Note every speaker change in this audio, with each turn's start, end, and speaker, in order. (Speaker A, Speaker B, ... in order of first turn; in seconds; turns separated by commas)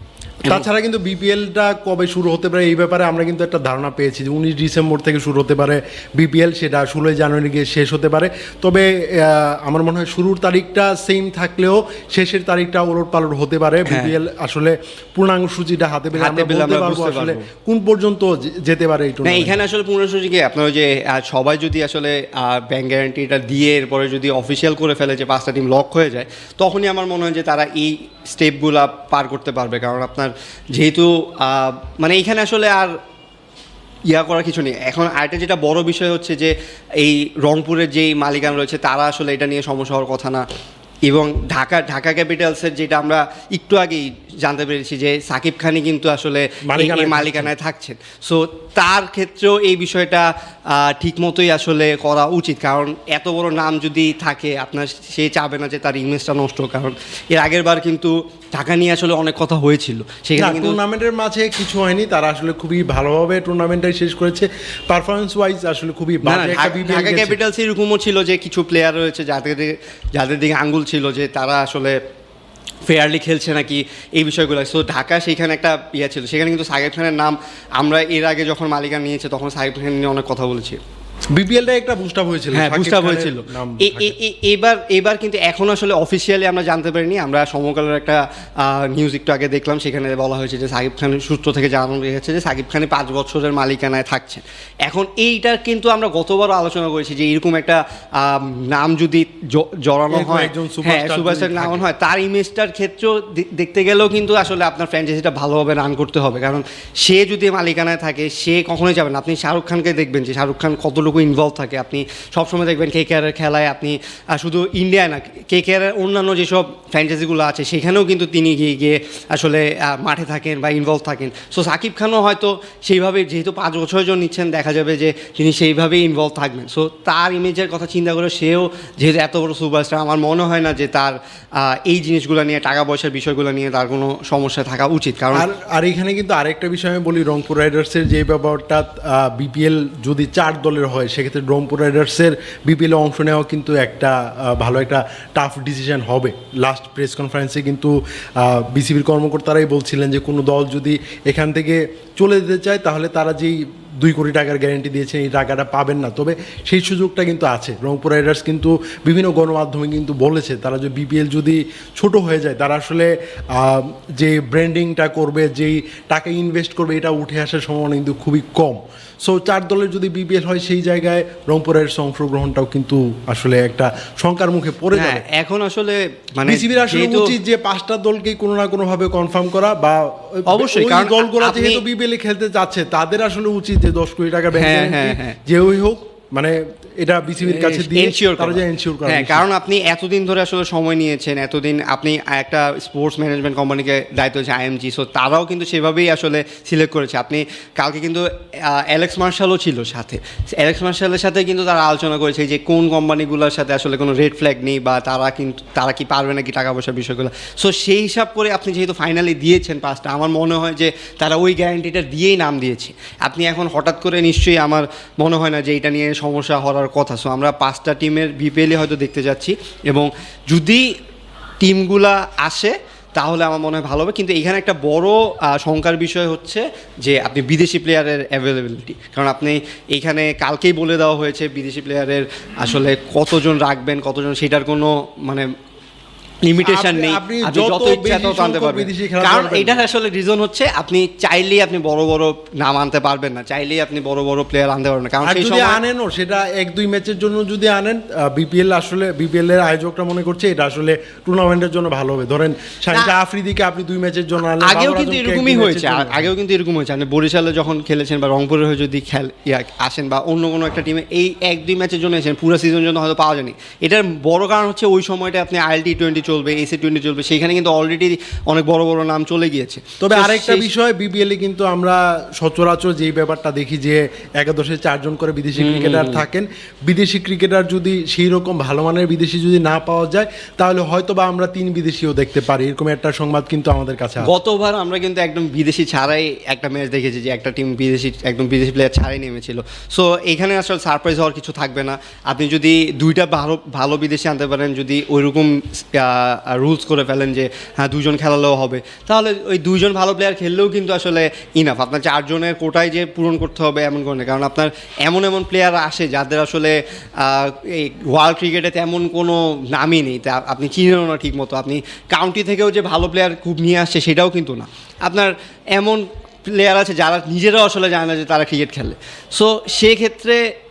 Speaker A: 0.4-19.6, Speaker B: 13.9-14.1, Speaker B: 16.1-17.4, Speaker B: 19.2-33.0, Speaker B: 34.1-40.4, Speaker B: 41.1-60.8, Speaker A: 46.7-47.5, Speaker A: 60.4-67.4, Speaker B: 66.3-72.0, Speaker B: 72.9-80.8, Speaker A: 81.3-84.2, Speaker B: 82.5-135.5, Speaker A: 100.1-101.9, Speaker A: 135.3-175.2, Speaker B: 174.9-177.4, Speaker A: 176.5-189.5, Speaker B: 180.5-181.8, Speaker B: 184.6-185.4, Speaker B: 187.4-220.9, Speaker B: 221.6-235.5, Speaker B: 236.4-245.8, Speaker A: 236.6-239.8, Speaker A: 245.2-256.3, Speaker B: 254.6-270.7, Speaker A: 270.0-284.3, Speaker B: 275.6-276.2, Speaker B: 284.2-320.4